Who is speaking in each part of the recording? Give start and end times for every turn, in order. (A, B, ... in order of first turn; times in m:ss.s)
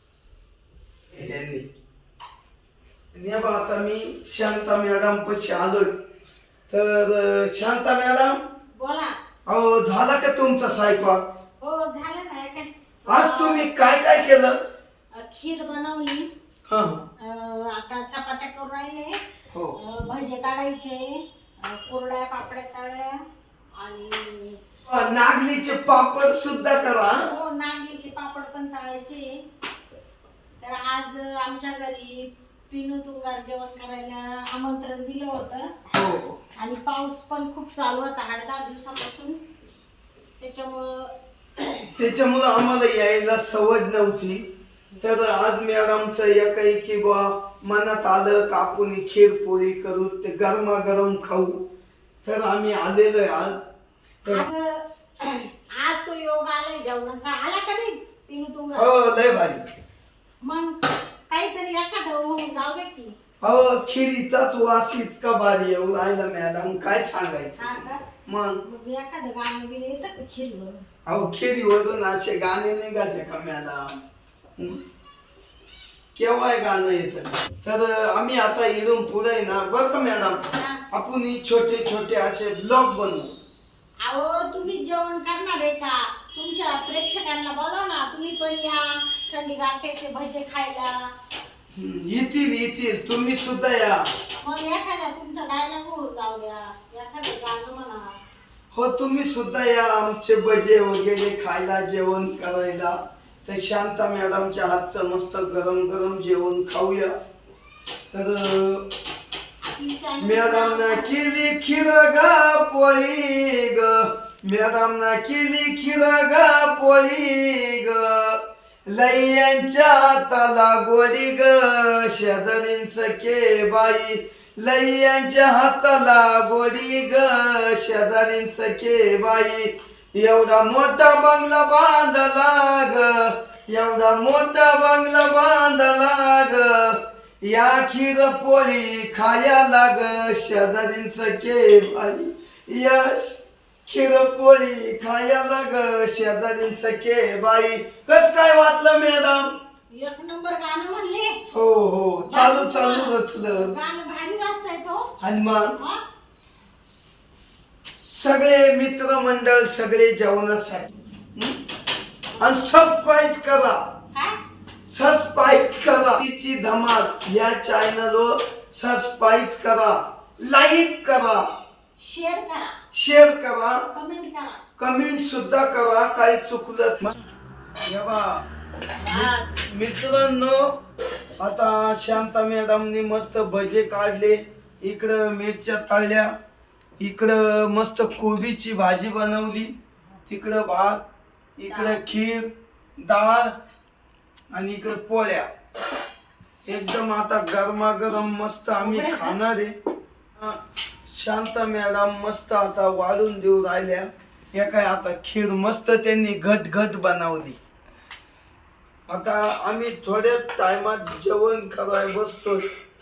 0:01.1-0:01.7 A
0:03.1-0:06.0 A
0:06.7-0:08.4 A
0:08.7-0:09.2 B
0:09.5-0:11.3 A
0:11.6-0:13.7 B
0:13.1-0:14.6 A
0:15.1-0:16.3 B
0:16.7-0:17.0 A
0:17.2-0:19.2 B
0:19.5-0:19.8 A
0:19.8-0:23.2 B
0:23.8-0:24.6 B
0:24.9-0:27.3 A
0:27.2-0:29.4 B
0:30.6-0:35.7 B
0:35.9-0:36.4 A
0:36.6-0:39.4 B
0:40.4-0:41.9 B
0:42.0-0:44.5 A
0:45.0-0:51.6 A
0:52.2-0:53.6 A
0:54.3-0:58.9 B
0:58.8-0:59.6 A
1:00.4-1:03.1 B
1:03.4-1:08.6 A
1:07.6-1:08.0 B
1:08.6-1:10.8 B
1:11.0-1:14.0 A
1:16.1-1:23.3 A
1:20.4-1:20.8 B
1:24.0-1:31.1 B
1:31.7-1:34.1 A
1:34.4-1:38.2 B
1:38.7-1:47.1 A
1:48.1-1:48.9 A
1:49.6-1:51.2 B
1:50.2-2:29.5 A
2:29.9-2:31.4 B
2:31.5-2:33.7 A
2:32.3-2:35.1 B
2:35.2-2:35.8 A
2:35.8-2:36.0 B
2:37.9-2:41.6 A
2:42.4-2:43.9 A
2:44.1-2:44.4 B
2:44.8-2:51.5 A
2:52.0-2:52.8 B
2:52.9-2:53.9 A
2:53.9-2:54.6 B
2:54.8-2:57.1 A
2:57.9-2:58.4 A
2:59.0-2:59.6 B
2:59.1-3:00.8 A
3:01.4-3:06.3 A
3:07.0-3:09.7 A
3:10.3-3:11.0 A
3:11.6-3:13.5 A
3:11.7-3:12.0 B
3:14.5-3:15.5 A
3:16.7-3:19.8 A
3:18.8-3:19.4 B
3:20.4-3:27.6 A
3:29.1-3:32.6 A